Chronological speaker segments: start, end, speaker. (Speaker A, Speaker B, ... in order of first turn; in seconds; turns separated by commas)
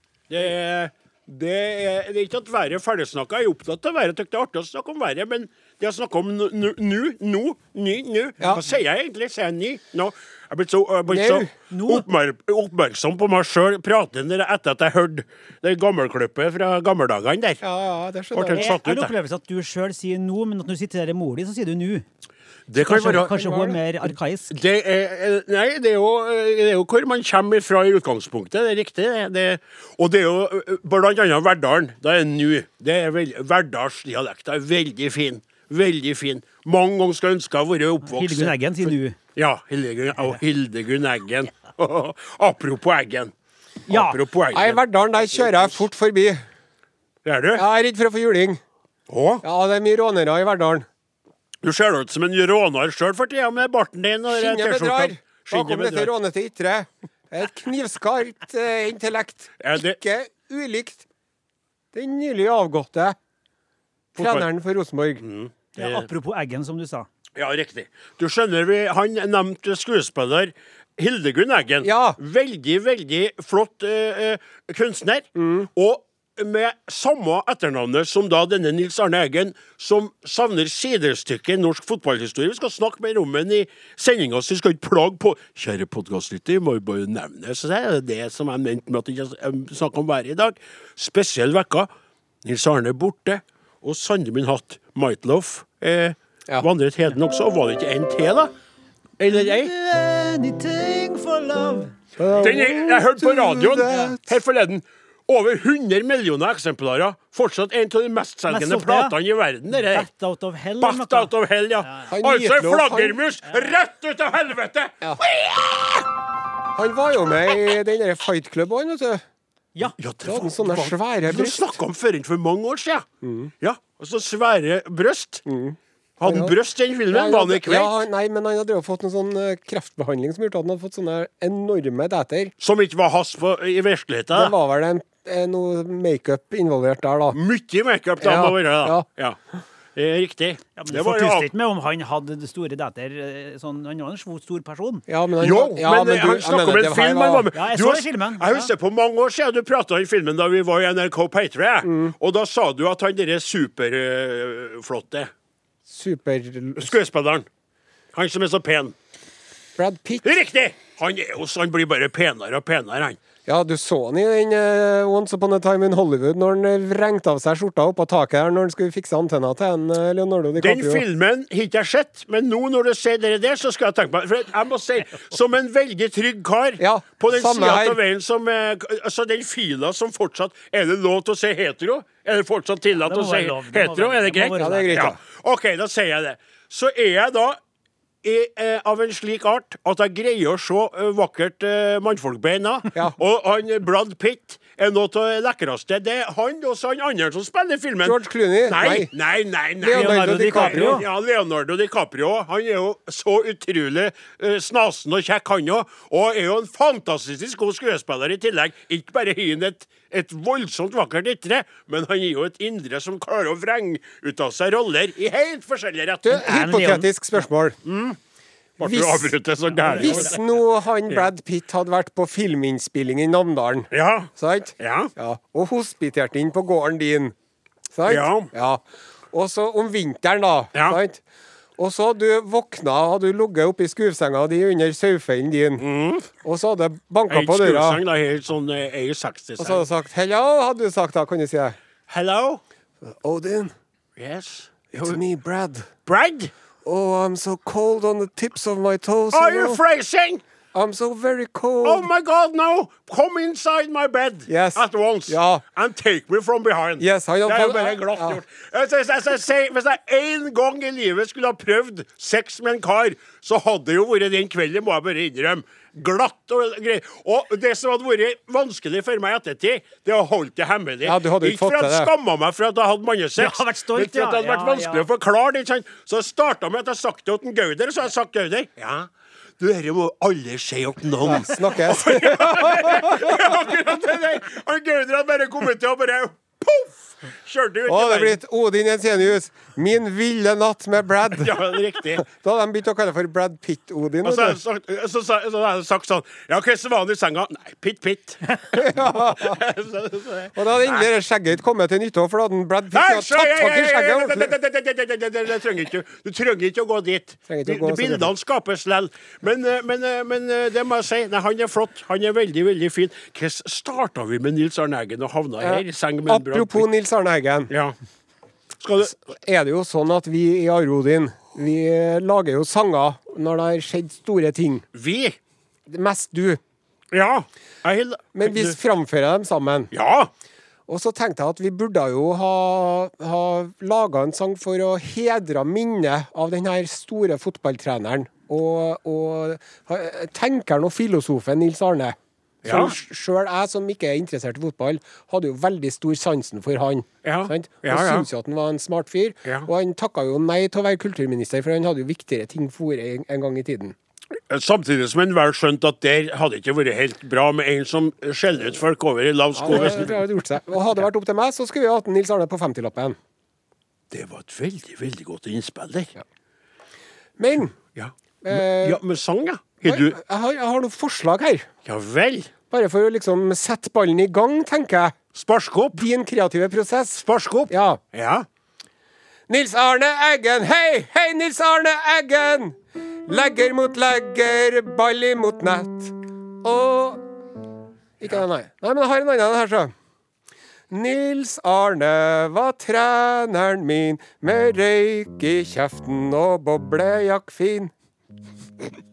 Speaker A: 0.3-17.6, Speaker B: 11.1-11.5, Speaker C: 11.7-12.0, Speaker B: 17.6-18.8, Speaker A: 18.3-19.1, Speaker C: 18.5-22.0, Speaker A: 22.7-23.3, Speaker C: 22.8-24.5, Speaker B: 22.9-23.8, Speaker A: 24.5-38.5, Speaker C: 38.0-39.2, Speaker A: 39.3-43.3, Speaker A: 43.9-45.8, Speaker C: 43.9-44.2, Speaker B: 44.5-46.4, Speaker A: 47.2-47.6, Speaker B: 47.5-48.6, Speaker A: 49.1-49.4, Speaker B: 49.4-50.9, Speaker A: 51.6-56.1, Speaker B: 54.3-61.0, Speaker A: 59.6-60.0, Speaker B: 61.9-63.1, Speaker A: 64.2-64.5, Speaker B: 64.2-65.2, Speaker A: 65.2-66.1, Speaker C: 65.8-67.1, Speaker A: 67.3-91.9, Speaker B: 71.8-72.2, Speaker B: 75.3-75.7, Speaker A: 92.4-98.5, Speaker A: 99.2-99.7, Speaker C: 99.3-101.9, Speaker B: 102.2-104.2, Speaker A: 102.4-110.1, Speaker C: 103.8-104.1, Speaker C: 108.5-109.2, Speaker C: 109.7-111.3, Speaker A: 110.8-115.9, Speaker C: 111.8-112.1, Speaker B: 112.1-113.2, Speaker B: 116.7-119.2, Speaker A: 120.0-123.0, Speaker B: 120.2-121.7, Speaker B: 123.2-123.5, Speaker A: 123.6-125.4, Speaker B: 125.5-126.5, Speaker A: 126.2-128.0, Speaker B: 127.1-132.5, Speaker A: 132.6-134.5, Speaker B: 134.3-137.4, Speaker A: 137.3-139.4, Speaker B: 138.2-139.0, Speaker A: 139.9-141.5, Speaker C: 140.8-145.0, Speaker B: 145.1-147.5, Speaker A: 145.4-155.3, Speaker C: 147.5-148.7, Speaker B: 151.8-152.1, Speaker B: 155.9-156.9, Speaker A: 156.8-157.4, Speaker A: 158.1-158.9, Speaker B: 159.8-160.3, Speaker A: 160.2-163.2, Speaker B: 163.4-171.0, Speaker A: 170.6-187.6, Speaker B: 176.8-178.0, Speaker C: 183.0-185.1, Speaker B: 184.6-185.2, Speaker A: 188.2-216.5, Speaker B: 198.0-199.1, Speaker B: 199.8-201.0, Speaker C: 199.9-201.0, Speaker B: 216.2-217.8, Speaker C: 216.3-217.1, Speaker A: 217.8-218.2, Speaker A: 218.8-220.3, Speaker B: 218.8-219.3, Speaker C: 219.8-220.3, Speaker B: 219.9-227.3, Speaker A: 223.9-225.1, Speaker B: 227.9-231.2, Speaker A: 228.1-228.5, Speaker A: 230.7-231.0, Speaker B: 231.8-235.8, Speaker A: 235.8-236.3, Speaker B: 236.4-238.0, Speaker A: 237.3-239.9, Speaker B: 239.6-241.8, Speaker A: 242.1-242.6, Speaker B: 243.0-243.7, Speaker A: 244.2-245.2, Speaker B: 244.9-245.9, Speaker A: 246.1-246.5, Speaker B: 246.8-249.8, Speaker A: 249.3-250.4, Speaker B: 250.7-252.1, Speaker A: 251.8-279.1, Speaker B: 254.5-255.6, Speaker B: 257.0-258.4, Speaker B: 271.0-272.1, Speaker C: 273.4-275.1, Speaker A: 279.6-288.4, Speaker B: 281.2-283.6, Speaker B: 287.9-294.6, Speaker A: 291.4-292.2, Speaker A: 294.2-301.1, Speaker B: 298.7-299.6, Speaker B: 300.5-304.5, Speaker A: 302.9-316.9, Speaker B: 307.5-308.3, Speaker B: 315.6-317.7, Speaker A: 317.7-317.9, Speaker A: 318.8-319.1, Speaker B: 319.0-324.8, Speaker A: 324.9-325.4, Speaker B: 325.9-326.6, Speaker A: 327.1-328.7, Speaker B: 328.3-329.9, Speaker A: 329.9-330.3, Speaker B: 330.9-353.9, Speaker A: 342.6-342.9, Speaker A: 347.2-348.3, Speaker A: 354.5-360.2, Speaker B: 359.6-363.2, Speaker A: 364.1-366.1, Speaker B: 367.4-367.7, Speaker A: 367.9-370.2, Speaker B: 368.4-369.0, Speaker B: 369.8-371.7, Speaker A: 371.8-372.5, Speaker B: 372.7-375.1, Speaker A: 375.3-376.1, Speaker B: 375.9-378.0, Speaker A: 377.2-378.4, Speaker B: 379.5-382.8, Speaker B: 383.3-387.2, Speaker B: 388.2-389.9, Speaker B: 390.9-397.9